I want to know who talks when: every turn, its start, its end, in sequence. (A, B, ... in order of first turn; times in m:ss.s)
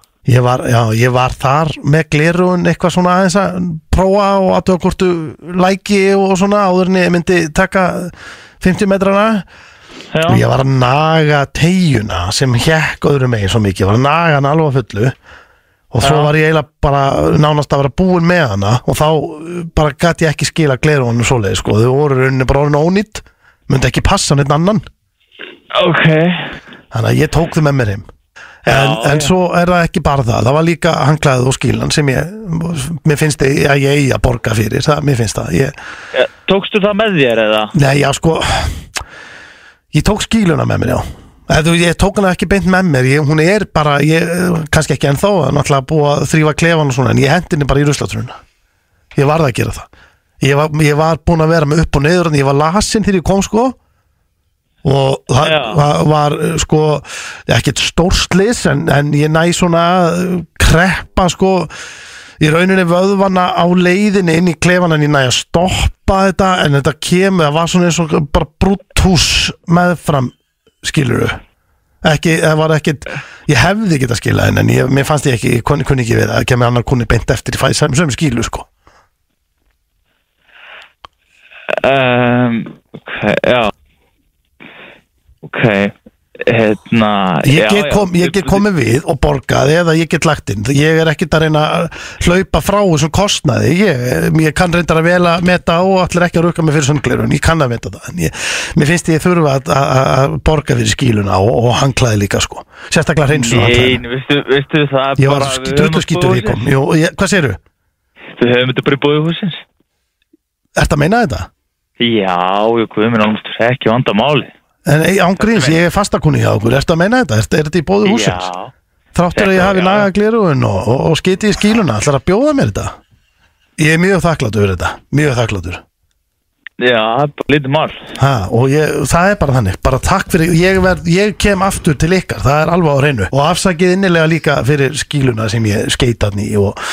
0:00.2-0:09.4 A
0:10.1-0:10.4 B
0:10.2-0:15.1 A
0:15.9-0:24.8 A
0:16.0-0:16.3 B
0:25.7-0:26.5 B
0:26.9-0:28.1 A
0:28.6-0:35.7 A
0:28.6-0:29.3 B
0:36.1-0:37.7 B
0:37.7-0:38.8 A
0:39.9-0:48.4 A
0:49.1-0:49.9 A
0:50.4-0:53.8 A
0:54.8-1:01.7 A
0:55.4-0:55.8 B
1:02.4-1:11.4 A
1:12.0-1:18.7 A
1:21.7-1:23.7 B
1:25.4-1:25.9 B
1:26.4-1:28.6 B
1:27.4-1:44.0 A
1:43.3-1:46.7 B
1:45.2-1:47.6 A
1:48.4-1:49.6 B
1:50.8-1:51.5 A
1:52.0-1:54.5 B
1:54.8-1:58.5 A
1:55.4-1:55.8 B
1:58.0-1:58.7 B
1:59.1-2:03.0 A
1:59.3-2:00.1 B
2:03.8-2:05.8 A
2:06.8-2:08.0 B
2:08.2-2:16.8 A